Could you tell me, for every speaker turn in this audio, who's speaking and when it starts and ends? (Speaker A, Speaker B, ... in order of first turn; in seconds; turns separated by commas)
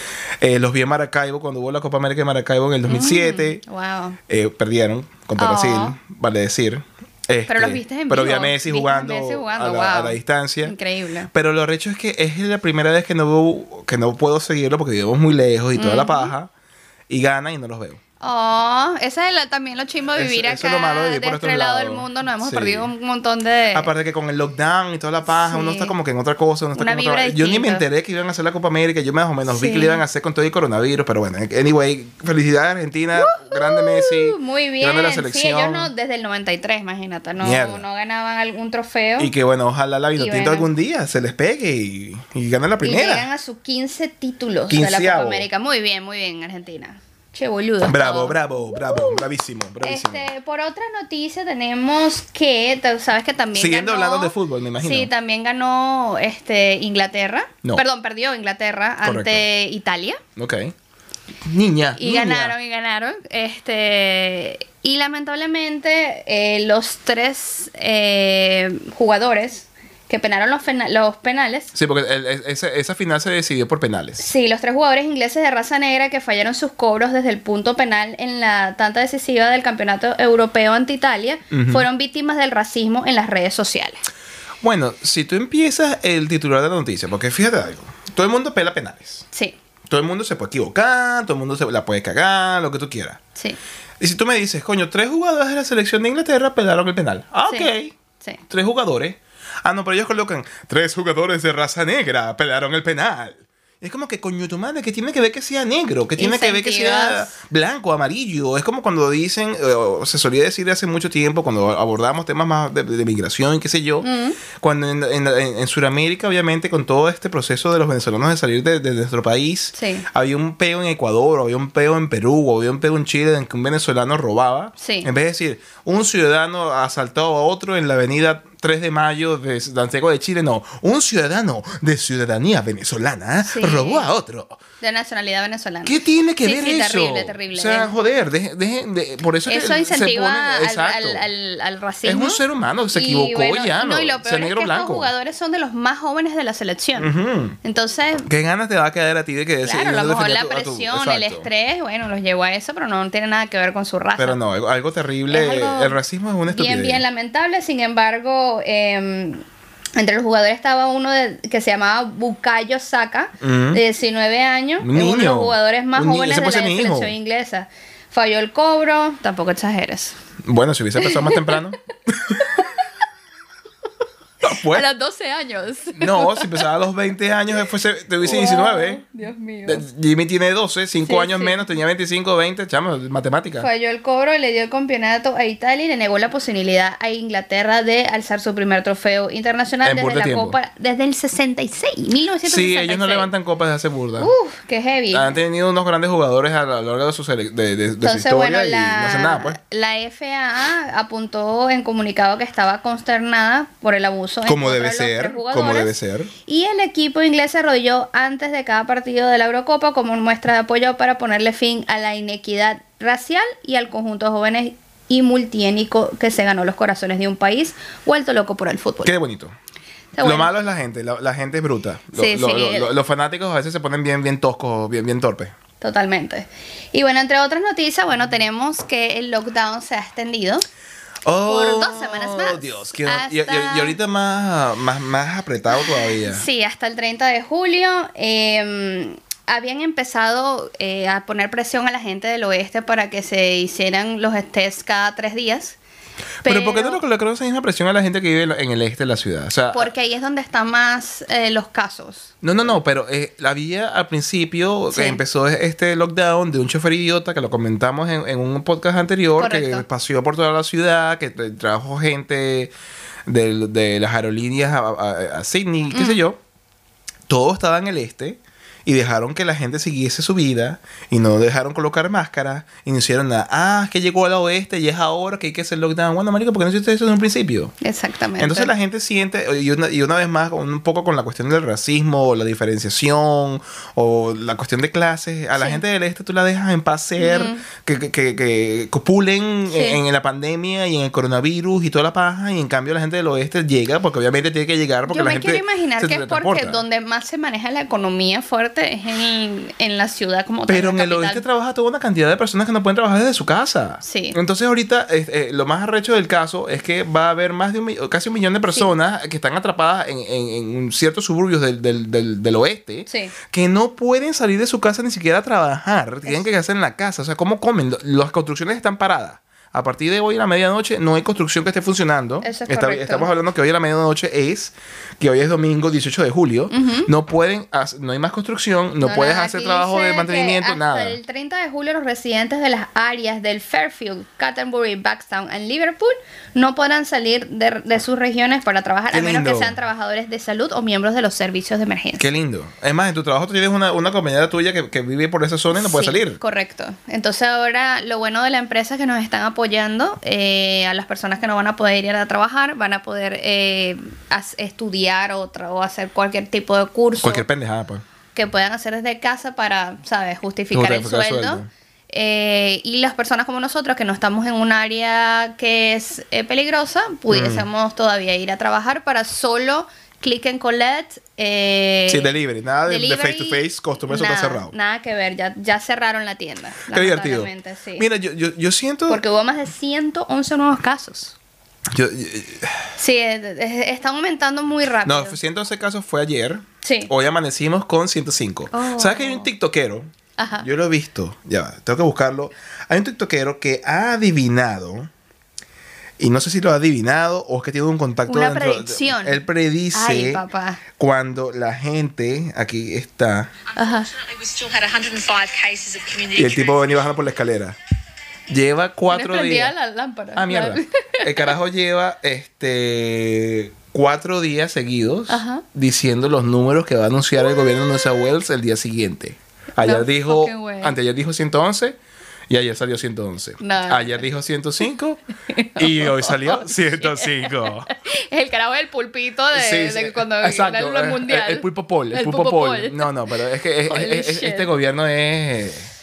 Speaker A: 0.4-3.6, Speaker B: 2.9-4.2, Speaker A: 4.3-10.8, Speaker B: 5.4-6.0, Speaker B: 7.5-11.3, Speaker A: 11.3-16.5, Speaker B: 15.8-16.3, Speaker A: 17.1-18.0, Speaker B: 18.2-23.9, Speaker A: 20.1-22.9, Speaker A: 23.7-35.9, Speaker B: 25.3-25.9, Speaker B: 26.8-27.9, Speaker B: 29.5-30.0, Speaker B: 33.1-39.3, Speaker A: 37.4-37.8, Speaker A: 39.2-43.3, Speaker B: 40.2-40.7, Speaker B: 42.8-49.3, Speaker A: 44.7-45.5, Speaker A: 47.9-50.3, Speaker B: 49.8-60.2, Speaker A: 53.5-55.1, Speaker A: 59.0-59.5, Speaker A: 60.4-60.7, Speaker A: 61.4-62.5, Speaker B: 62.0-71.7, Speaker A: 71.7-74.3, Speaker B: 74.2-84.0, Speaker A: 81.5-81.9, Speaker A: 84.6-89.2, Speaker A: 89.9-93.2, Speaker A: 94.0-98.0, Speaker B: 97.5-98.4, Speaker A: 98.5-134.6, Speaker B: 106.2-107.3, Speaker B: 114.0-114.4, Speaker B: 119.7-120.1, Speaker B: 124.8-125.1, Speaker B: 133.4-134.1, Speaker B: 134.8-137.9, Speaker A: 135.8-141.2, Speaker B: 139.5-142.4, Speaker A: 142.0-145.1, Speaker B: 142.9-147.1, Speaker A: 147.0-147.6, Speaker B: 147.6-148.3, Speaker A: 148.3-151.5, Speaker B: 149.6-154.4, Speaker A: 154.2-157.0, Speaker B: 155.3-159.4, Speaker B: 160.0-170.2, Speaker A: 163.4-163.8, Speaker A: 164.8-167.1, Speaker A: 170.4-172.7, Speaker B: 171.0-171.6, Speaker B: 172.4-172.9, Speaker A: 174.4-174.8, Speaker B: 174.5-176.6, Speaker A: 176.0-179.0, Speaker B: 178.2-179.8, Speaker A: 179.7-183.7, Speaker B: 181.0-181.6, Speaker B: 183.6-193.3, Speaker A: 189.8-190.6, Speaker A: 192.5-194.3, Speaker B: 194.2-195.4, Speaker A: 195.1-199.6, Speaker B: 198.0-205.9, Speaker A: 204.5-206.3, Speaker B: 206.5-219.1, Speaker A: 219.1-219.5, Speaker B: 220.2-220.5, Speaker A: 220.2-225.5, Speaker B: 222.2-222.9, Speaker B: 225.8-230.7, Speaker A: 231.2-236.5, Speaker B: 231.5-234.0, Speaker B: 235.7-245.8, Speaker A: 246.4-249.9, Speaker B: 246.4-247.0, Speaker B: 249.7-252.3, Speaker A: 252.4-262.7, Speaker B: 254.9-255.2, Speaker B: 259.4-259.9, Speaker A: 263.3-266.4, Speaker B: 265.9-266.2, Speaker A: 267.3-277.7, Speaker B: 277.8-278.7, Speaker A: 278.4-296.8, Speaker B: 285.6-285.8, Speaker B: 287.2-287.6, Speaker B: 289.7-290.0, Speaker B: 295.1-301.4, Speaker A: 300.7-331.2, Speaker B: 304.0-304.4, Speaker B: 313.1-313.3, Speaker B: 322.4-323.3, Speaker B: 326.7-327.1, Speaker B: 329.0-342.3, Speaker A: 339.1-339.8, Speaker A: 342.2-346.4, Speaker B: 345.7-357.4, Speaker A: 357.2-358.0, Speaker B: 358.4-372.3, Speaker A: 360.7-361.7, Speaker A: 367.3-367.7, Speaker A: 372.1-374.7, Speaker B: 372.9-378.1, Speaker A: 376.9-379.2, Speaker B: 379.1-381.4, Speaker A: 381.9-382.9, Speaker B: 383.0-385.4, Speaker A: 385.1-390.1, Speaker B: 386.8-387.1, Speaker B: 388.7-389.5, Speaker B: 390.4-390.7, Speaker A: 390.6-395.1, Speaker A: 396.2-400.4, Speaker B: 398.3-400.8, Speaker A: 401.0-403.5, Speaker B: 403.8-404.1, Speaker C: 404.1-406.9, Speaker A: 406.4-407.8, Speaker A: 408.5-409.7, Speaker B: 409.1-411.5, Speaker A: 410.4-422.0, Speaker B: 415.3-415.6, Speaker B: 419.8-421.0, Speaker A: 422.5-425.2, Speaker B: 423.6-424.2, Speaker B: 425.5-433.1, Speaker A: 425.8-427.9, Speaker A: 429.5-435.9, Speaker B: 433.9-434.7